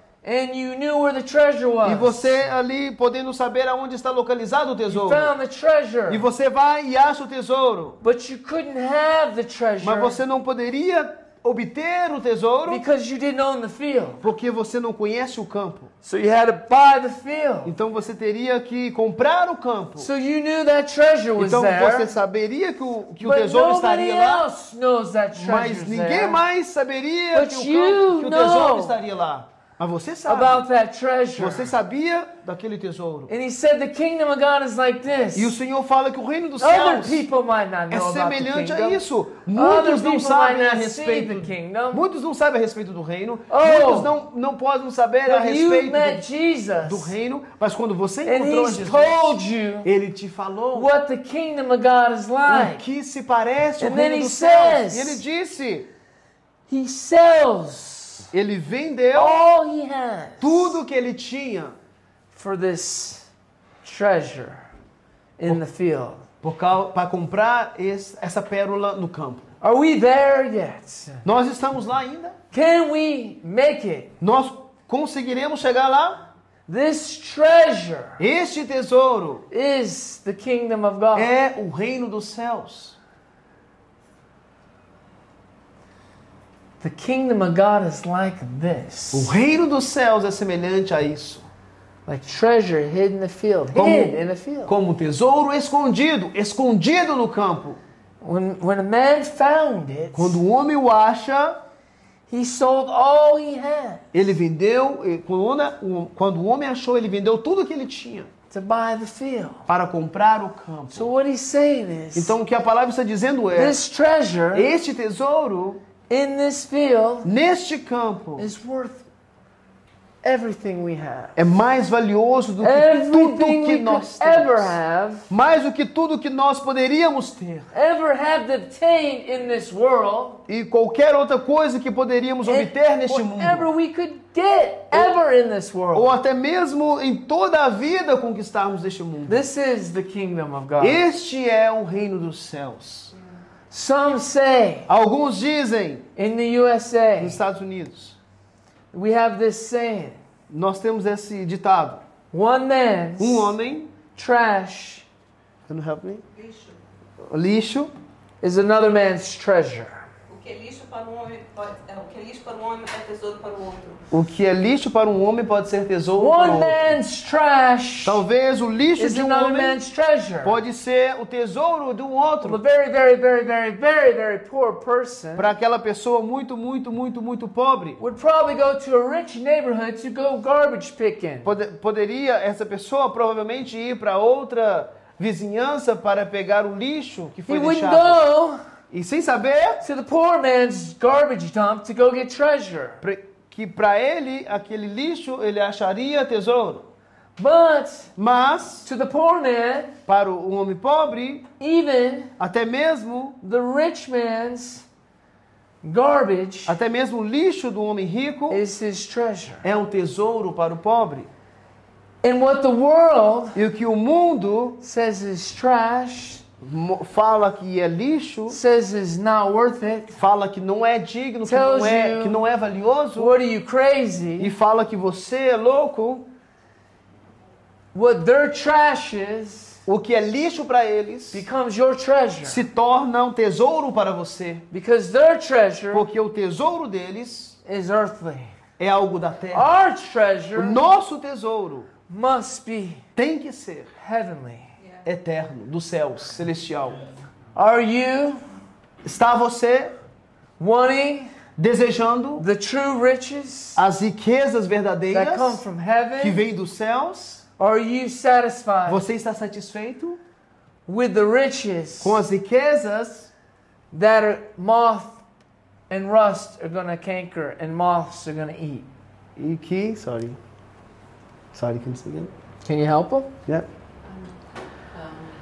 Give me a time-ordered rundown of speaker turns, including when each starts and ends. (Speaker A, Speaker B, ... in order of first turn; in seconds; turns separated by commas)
Speaker A: 0.2-2.4, Speaker B: 1.8-5.3, Speaker A: 4.9-6.3, Speaker B: 6.1-8.0, Speaker A: 8.0-10.2, Speaker B: 9.8-12.8, Speaker A: 12.7-14.2, Speaker B: 14.2-15.9, Speaker A: 16.0-17.7, Speaker B: 17.6-20.1, Speaker A: 20.0-22.1, Speaker B: 21.4-24.5, Speaker A: 23.2-26.4, Speaker B: 25.4-30.7, Speaker A: 27.3-29.0, Speaker A: 30.3-31.7, Speaker B: 31.4-33.3, Speaker A: 33.3-35.5, Speaker B: 35.4-37.3, Speaker A: 36.6-39.0, Speaker B: 37.9-46.2, Speaker A: 39.5-42.0, Speaker A: 43.5-44.1, Speaker A: 45.3-47.1, Speaker B: 46.8-50.9, Speaker A: 48.2-49.9, Speaker A: 50.7-52.8, Speaker B: 52.5-55.9, Speaker A: 53.8-55.2, Speaker A: 56.7-58.3, Speaker B: 58.3-59.4, Speaker A: 59.1-60.8, Speaker B: 60.4-61.8, Speaker A: 62.3-63.3, Speaker A: 63.8-64.7, Speaker A: 65.4-66.2, Speaker B: 66.4-69.5, Speaker A: 69.6-71.2, Speaker B: 71.2-72.4, Speaker A: 72.5-74.1, Speaker B: 74.2-76.2, Speaker A: 76.7-78.2, Speaker B: 78.2-79.5, Speaker A: 79.5-81.3, Speaker B: 81.1-83.0, Speaker A: 86.8-89.4, Speaker B: 89.1-91.5, Speaker A: 92.1-94.7, Speaker B: 93.7-97.8, Speaker A: 98.2-100.4, Speaker B: 100.2-101.6, Speaker A: 102.3-104.0, Speaker B: 104.1-108.3, Speaker A: 108.5-109.6, Speaker B: 109.7-111.1, Speaker A: 110.9-112.4, Speaker B: 112.2-113.8, Speaker A: 113.5-114.7, Speaker B: 114.5-115.8, Speaker A: 116.1-117.3, Speaker B: 117.2-118.5, Speaker A: 118.4-119.0, Speaker A: 120.2-121.4, Speaker B: 121.4-124.8, Speaker A: 122.6-125.3, Speaker B: 125.3-127.7, Speaker A: 127.7-130.4, Speaker B: 130.5-133.7, Speaker A: 132.4-136.1, Speaker B: 135.9-139.5, Speaker A: 139.3-141.0, Speaker B: 140.8-143.1, Speaker A: 143.7-144.9, Speaker B: 144.9-146.1, Speaker A: 146.2-147.4, Speaker B: 147.2-148.2, Speaker A: 148.9-150.2, Speaker B: 150.5-152.0, Speaker A: 152.3-153.5, Speaker B: 153.2-153.9, Speaker A: 154.2-155.1, Speaker B: 155.7-156.2, Speaker C: 156.4-156.8, Speaker B: 157.2-157.9, Speaker A: 158.4-160.1, Speaker C: 160.3-164.1, Speaker B: 164.1-166.8, Speaker A: 166.2-168.2, Speaker B: 168.1-169.8, Speaker A: 169.0-170.6, Speaker B: 170.4-172.6, Speaker A: 172.4-175.5, Speaker B: 175.4-178.0, Speaker A: 178.0-181.5, Speaker B: 181.4-188.2, Speaker A: 187.5-188.6, Speaker B: 188.9-189.8, Speaker A: 189.8-193.0, Speaker B: 193.0-196.9, Speaker A: 197.4-198.1, Speaker B: 198.2-198.9, Speaker A: 198.8-200.0, Speaker B: 200.1-201.5, Speaker A: 201.6-202.3, Speaker B: 202.4-203.4, Speaker A: 203.4-204.8, Speaker A: 205.8-206.8, Speaker B: 206.7-208.6, Speaker A: 208.5-209.6, Speaker B: 209.6-211.3, Speaker A: 212.2-213.6, Speaker B: 213.6-214.8, Speaker A: 214.8-216.4, Speaker B: 216.6-218.6, Speaker A: 218.5-220.2, Speaker B: 220.2-223.3, Speaker A: 221.4-222.4, Speaker A: 223.2-224.5, Speaker B: 224.4-226.3, Speaker A: 227.9-229.8, Speaker B: 229.9-231.4, Speaker A: 231.3-232.6, Speaker B: 232.4-234.7, Speaker A: 234.7-236.1, Speaker B: 235.9-237.6, Speaker A: 237.7-238.5, Speaker B: 238.8-239.7, Speaker A: 239.5-240.8, Speaker B: 240.6-241.9, Speaker A: 242.1-243.0, Speaker B: 243.2-243.9, Speaker A: 244.0-244.7, Speaker B: 245.1-247.0, Speaker A: 247.6-248.4, Speaker B: 249.0-249.9, Speaker A: 250.6-251.3, Speaker B: 251.6-252.5, Speaker A: 252.4-253.8, Speaker B: 253.8-255.6, Speaker A: 255.1-256.4, Speaker B: 256.2-257.4, Speaker A: 257.6-259.0, Speaker B: 258.9-260.2, Speaker A: 260.9-262.2, Speaker B: 262.0-263.3, Speaker A: 263.9-265.2, Speaker A: 265.9-268.9, Speaker B: 269.4-270.4, Speaker B: 271.5-272.3, Speaker A: 272.6-273.3